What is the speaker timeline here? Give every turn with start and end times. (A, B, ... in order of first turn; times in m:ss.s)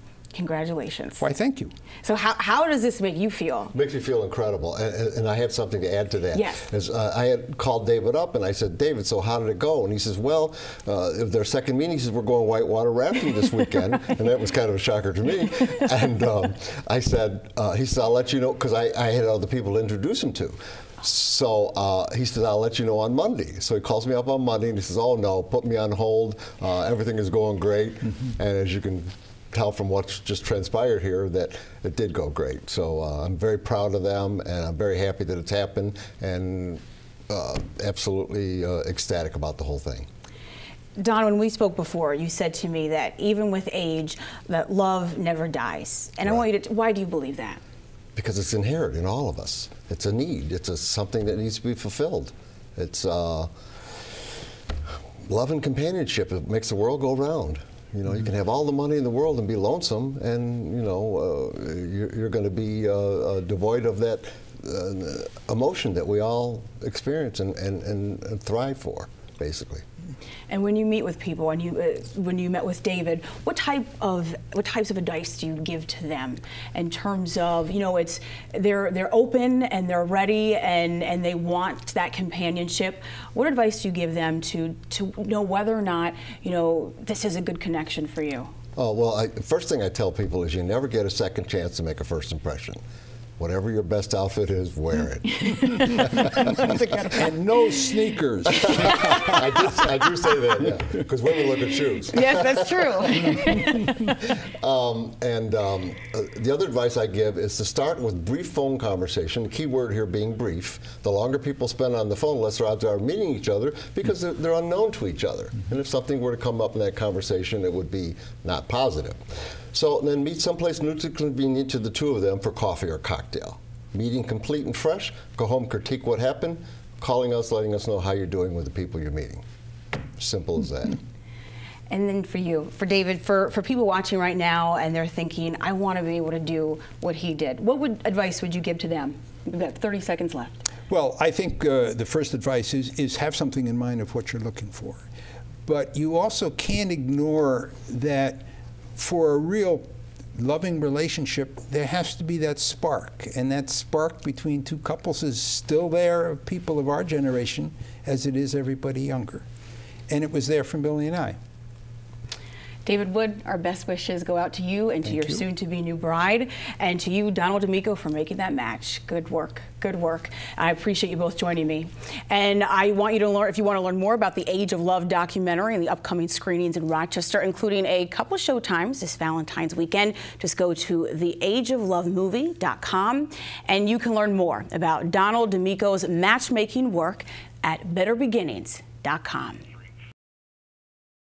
0:00.3-0:01.2 A
0:01.2-0:01.7 B
0:02.0-0:03.7 A
0:03.7-0:40.1 C
0:06.3-0:06.7 A
0:41.0-0:47.6 A
0:48.2-0:53.5 C
0:55.2-1:09.8 C
1:10.5-1:28.5 A
1:28.8-1:32.8 C
1:33.4-1:37.2 C
1:36.3-1:39.5 B
1:38.6-1:42.8 C
1:42.1-1:43.8 A
1:44.4-2:09.4 C
2:10.2-2:11.0 C
2:11.9-2:20.6 A
2:20.9-2:25.0 B
2:25.6-2:39.4 B
2:40.1-2:41.4 B
2:42.8-3:09.6 A